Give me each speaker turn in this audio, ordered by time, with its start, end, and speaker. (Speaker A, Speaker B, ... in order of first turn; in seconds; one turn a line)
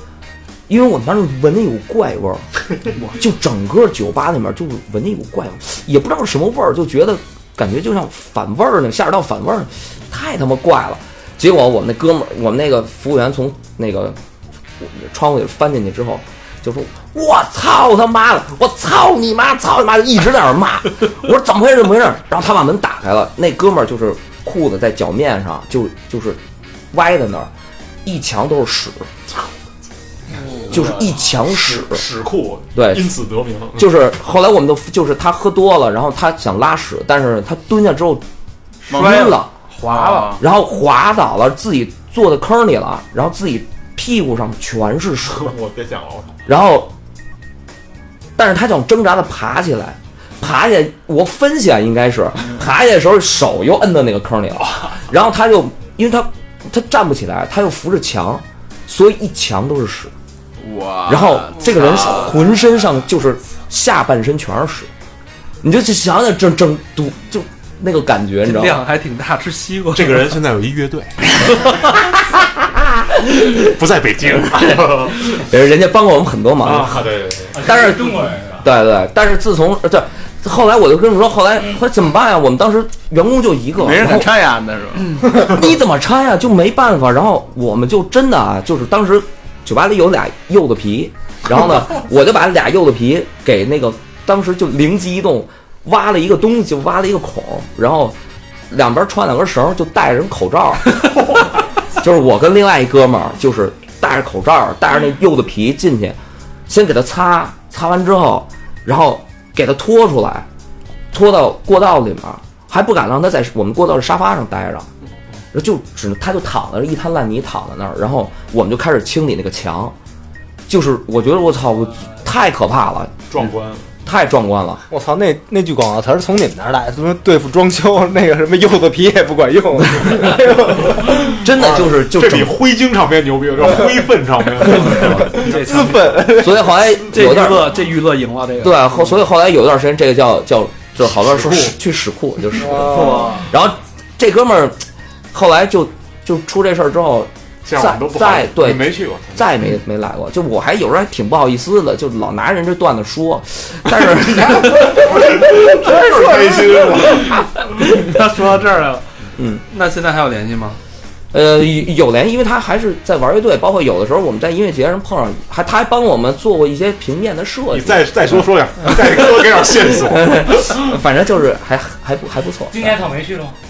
Speaker A: 0.7-14.2
Speaker A: 14.8-26.4
Speaker A: 26.9-27.5
Speaker A: 28.0-29.1
Speaker A: 30.7-32.0
Speaker B: 30.7-33.9
Speaker A: 32.7-33.1
Speaker A: 33.7-38.2
Speaker C: 38.9-40.4
Speaker A: 38.9-39.5
Speaker D: 38.9-39.2
Speaker D: 39.9-40.4
Speaker A: 40.4-45.5
Speaker B: 45.2-46.4
Speaker A: 46.5-46.9
Speaker A: 48.4-60.1
Speaker D: 60.6-62.4
Speaker A: 61.1-64.9
Speaker A: 65.6-68.8
Speaker C: 68.4-70.3
Speaker B: 69.9-71.2
Speaker A: 71.8-73.7
Speaker B: 73.4-75.4
Speaker A: 74.6-77.1
Speaker B: 76.6-77.7
Speaker E: 77.5-78.7
Speaker A: 77.6-84.3
Speaker D: 83.8-85.3
Speaker A: 85.2-98.2
Speaker A: 98.7-101.3
Speaker A: 102.0-110.5
Speaker A: 111.1-114.9
Speaker A: 115.5-119.9
Speaker A: 120.7-123.2
Speaker B: 123.3-123.9
Speaker A: 124.0-124.8
Speaker F: 124.9-131.4
Speaker A: 129.9-130.3
Speaker A: 131.2-132.6
Speaker B: 131.5-135.6
Speaker A: 134.6-135.4
Speaker C: 135.3-136.3
Speaker F: 135.4-136.6
Speaker A: 136.3-137.8
Speaker C: 137.0-138.8
Speaker A: 138.6-144.8
Speaker B: 141.0-141.7
Speaker F: 142.6-143.4
Speaker A: 145.3-155.2
Speaker B: 147.6-149.5
Speaker B: 154.1-157.3
Speaker F: 156.0-156.8
Speaker C: 157.8-159.0
Speaker A: 159.4-159.6
Speaker C: 159.7-160.8
Speaker A: 161.3-168.4
Speaker B: 167.7-170.5
Speaker A: 169.2-173.0
Speaker E: 172.7-173.5